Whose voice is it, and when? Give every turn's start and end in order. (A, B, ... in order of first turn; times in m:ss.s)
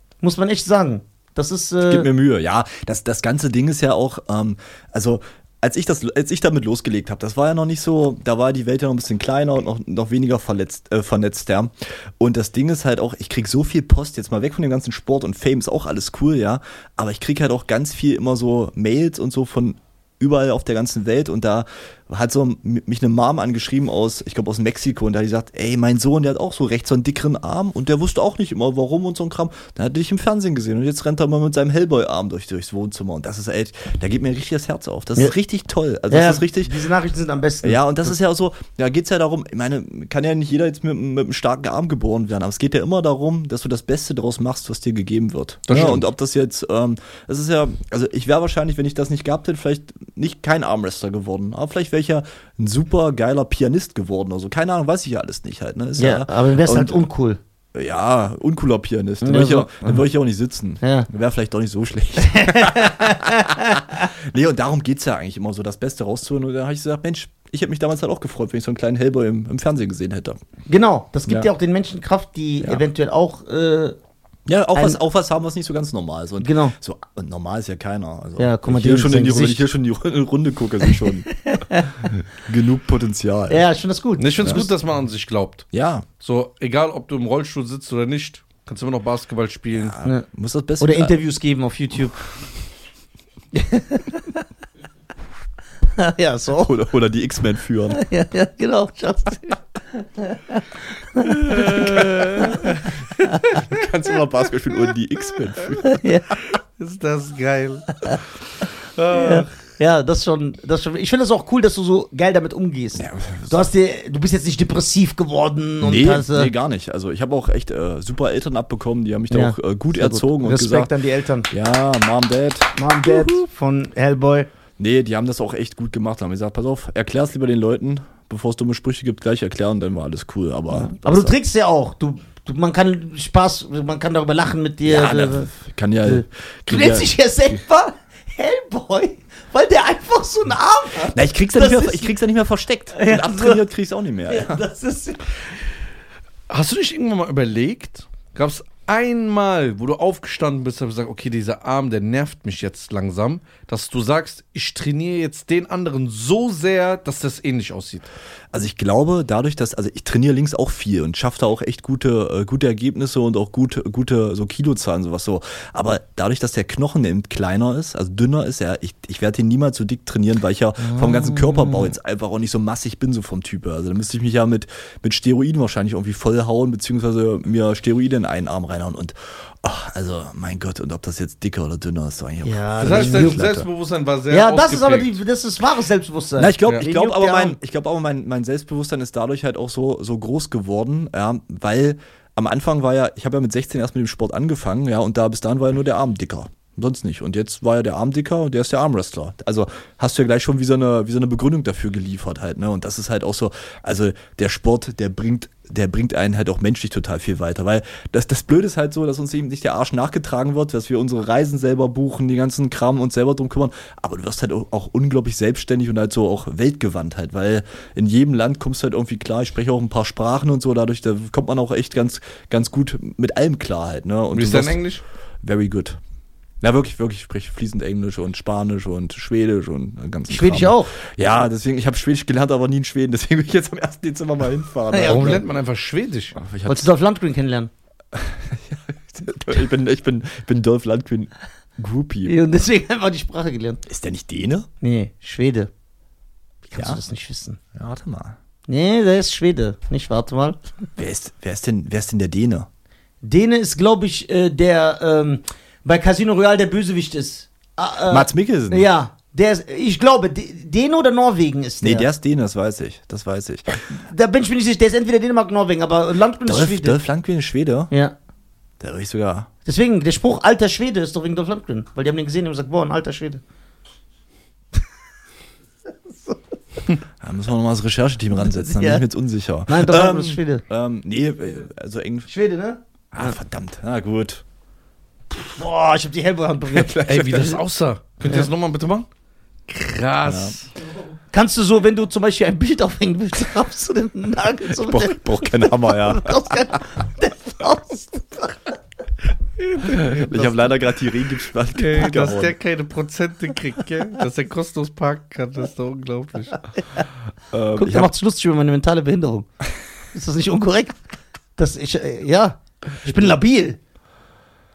0:00.2-0:02.1 A
0:01.8-0:36.7 B
0:36.1-0:38.1 A
0:37.6-0:57.0 B
0:45.7-0:46.0 C
0:56.0-0:57.4 A
0:57.7-1:10.4 B
0:59.2-1:00.0 A
1:00.8-1:01.1 A
1:02.2-1:04.1 A
1:10.7-1:14.0 A
1:14.5-1:21.3 B
1:16.4-1:16.7 A
1:18.4-1:19.7 A
1:20.9-1:22.1 A
1:22.0-1:23.6 B
1:23.5-1:24.7 A
1:24.2-1:25.7 C
1:25.7-1:26.0 B
1:26.2-1:30.0 C
1:29.8-1:31.2 B
1:30.8-1:32.2 A
1:33.5-1:34.4 A
1:36.0-1:36.8 A
1:36.6-1:38.0 B
1:37.9-1:43.6 A
1:41.5-1:42.9 C
1:41.6-1:42.7 B
1:43.5-1:46.0 B
1:45.8-1:46.4 A
1:46.8-1:47.9 C
1:49.0-1:49.5 C
1:49.1-1:56.5 A
1:53.0-1:53.6 B
1:55.8-2:00.9 B
1:59.3-2:01.5 A
2:01.5-2:03.4 B
2:02.8-2:04.5 A
2:04.8-2:11.3 B
2:10.7-2:15.5 A
2:14.8-2:17.6 B
2:16.0-2:22.1 A
2:21.1-2:24.6 B
2:22.9-2:23.6 A
2:24.3-2:25.4 A
2:26.5-2:38.1 C
2:38.5-3:03.7 B
2:50.8-2:51.9 A
3:02.4-3:03.4 A
3:02.8-3:05.2 C
3:04.3-3:07.6 A
3:06.4-3:44.8 B
3:44.3-3:45.0 C
3:45.4-3:46.0 B
3:46.6-3:55.4 B
3:50.3-3:50.9 A
3:54.9-3:55.4 A
3:55.0-3:56.4 C
3:56.4-3:56.9 B
3:56.7-3:57.7 A
3:58.1-4:02.4 B
4:02.2-4:03.8 A
4:03.8-4:04.7 B
4:04.8-4:05.7 A
4:06.7-4:07.6 A
4:07.7-4:08.4 B
4:08.7-4:10.9 A
4:11.0-4:12.7 B
4:13.2-4:22.1 A
4:18.1-4:18.9 B
4:21.8-4:23.8 B
4:24.0-4:27.0 A
4:26.4-4:27.9 B
4:28.8-4:29.5 B
4:29.6-4:33.4 A
4:37.2-4:42.3 B
4:38.6-4:39.0 A
4:39.7-4:40.6 A
4:42.3-4:43.3 A
4:43.1-4:44.4 B
4:45.3-4:47.0 A
4:46.7-4:47.6 B
4:47.0-4:49.1 C
4:49.7-4:50.7 C
4:50.2-4:50.6 B
4:51.3-4:58.7 A
4:54.7-4:56.5 B
4:59.6-5:00.5 C
4:59.8-5:02.6 B
5:01.7-5:06.6 C
5:07.5-5:08.1 B
5:07.8-5:09.5 A
5:10.1-5:11.0 A
5:11.6-5:13.8 A